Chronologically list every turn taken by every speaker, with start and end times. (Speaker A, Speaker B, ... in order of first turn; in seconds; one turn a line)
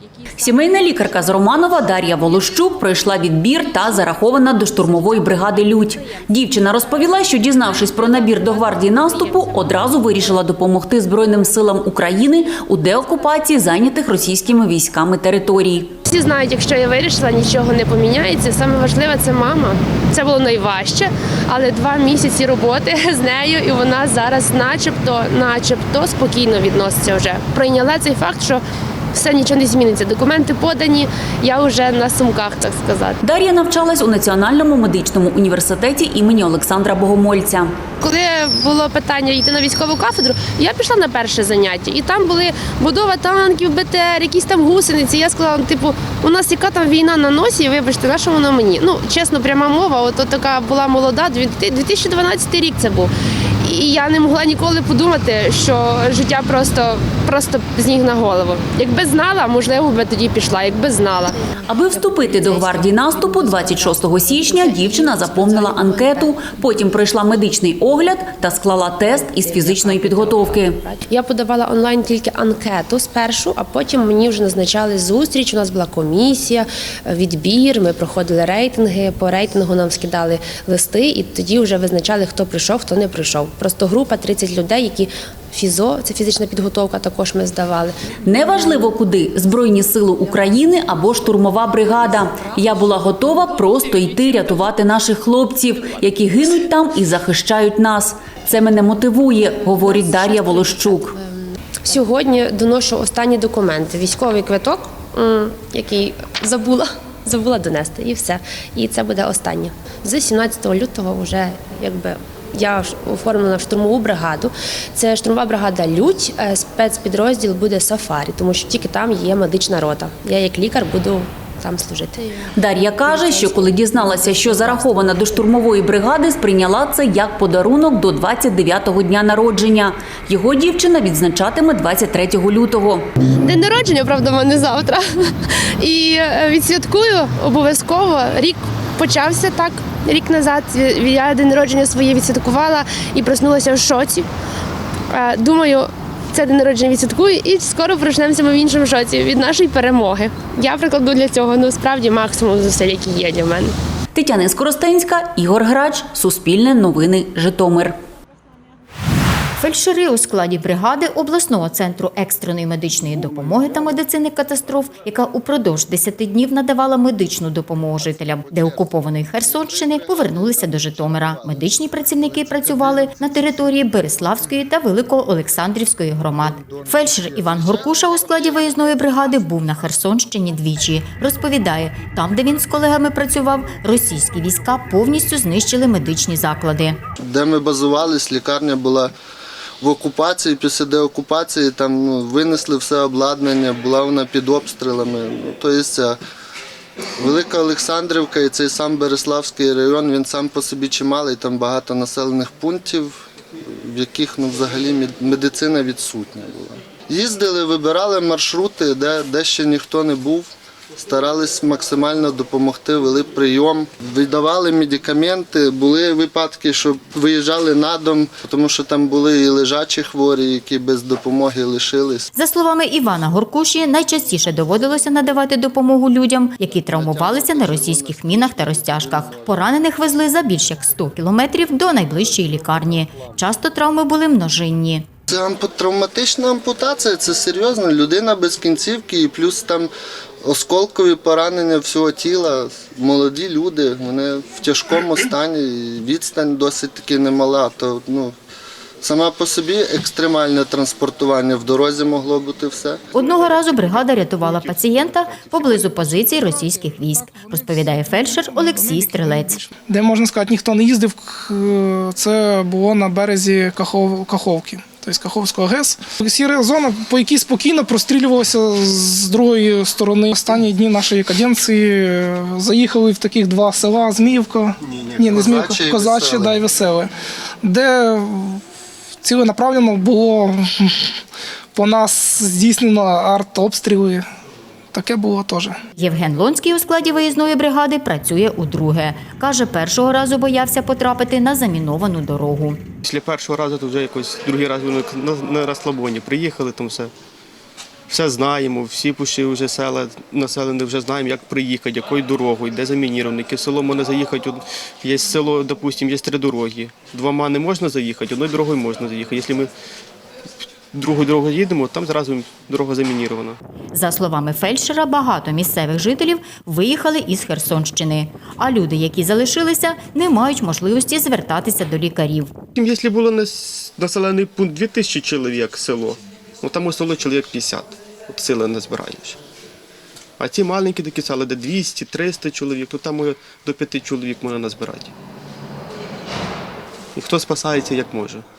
Speaker A: 0.4-15.9
Speaker B: 16.1-28.6
Speaker B: 29.1-33.2
Speaker A: 33.2-37.8
Speaker B: 38.0-53.1
Speaker B: 53.6-66.6
Speaker A: 61.7-70.8
Speaker B: 69.3-88.0
Speaker A: 88.3-101.2
Speaker B: 100.5-101.3
Speaker B: 101.8-122.3
Speaker A: 122.6-133.1
Speaker B: 123.1-125.3
Speaker B: 133.4-144.3
Speaker B: 145.1-153.7
Speaker A: 154.2-158.0
Speaker C: 159.6-187.0
Speaker D: 168.7-171.7
Speaker D: 187.2-189.1
Speaker D: 189.8-196.2
Speaker D: 197.2-203.2
Speaker D: 203.8-222.3
Speaker C: 222.3-235.1
Speaker D: 226.9-229.5
Speaker D: 235.3-239.9
Speaker D: 240.4-248.3
Speaker D: 249.0-253.0
Speaker C: 253.1-259.6
Speaker E: 254.7-255.9
Speaker F: 257.4-277.1
Speaker D: 274.9-276.6
Speaker F: 277.6-278.6
Speaker F: 279.2-281.1
Speaker F: 281.7-284.2
Speaker F: 284.9-285.8
Speaker C: 286.0-292.8
Speaker E: 293.0-297.1
Speaker E: 298.1-309.7
Speaker E: 310.9-313.6
Speaker C: 313.9-322.5
Speaker E: 322.8-329.4
Speaker E: 330.4-335.1
Speaker E: 337.1-338.4